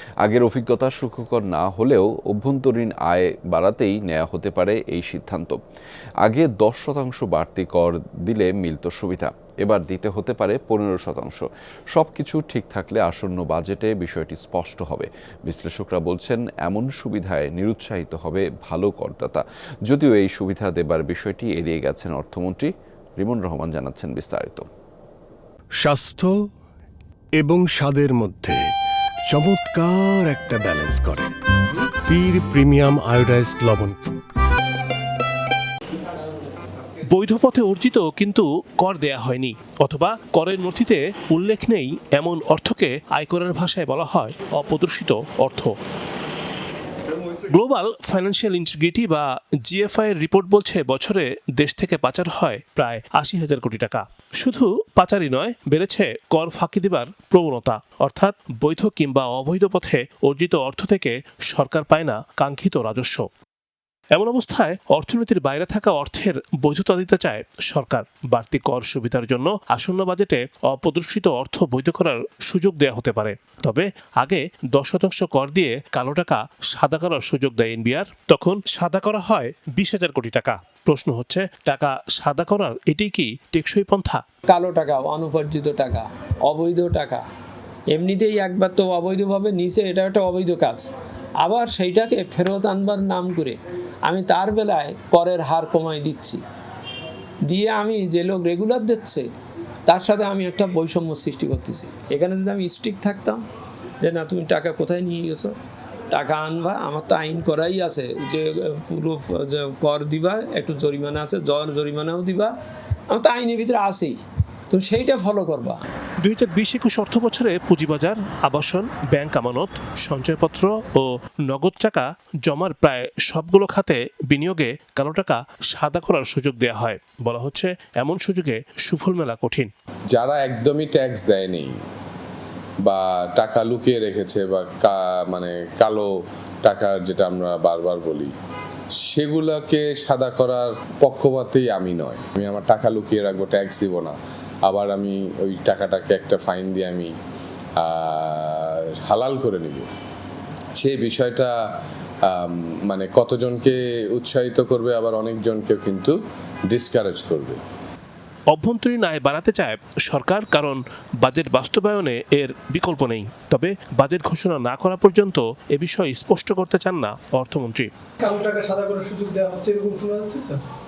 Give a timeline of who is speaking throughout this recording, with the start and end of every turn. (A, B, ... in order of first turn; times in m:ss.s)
0:00.2-0:05.6 A
0:06.2-0:24.6 A
0:25.8-0:26.3 B
0:27.4-0:28.6 B
0:29.3-0:31.3 B
0:32.0-0:34.0 B
0:37.1-0:45.7 C
0:47.5-1:03.3 C
1:04.1-1:24.2 C
1:24.5-1:27.2 D
1:27.9-1:30.9 D
1:31.4-1:36.4 D
1:37.5-1:39.2 D
1:39.9-1:43.4 D
1:44.0-1:45.5 D
1:46.1-1:52.5 D
1:53.1-1:54.2 D
1:54.7-1:55.8 D
1:56.2-2:09.7 C
2:10.1-2:11.7 E
2:12.8-2:16.1 E
2:16.6-2:18.3 E
2:19.0-2:24.2 E
2:24.7-2:27.1 E
2:27.8-2:29.9 E
2:30.8-2:31.5 E
2:32.3-2:36.2 E
2:36.7-2:37.6 E
2:38.5-2:47.9 C
2:48.2-2:50.6 F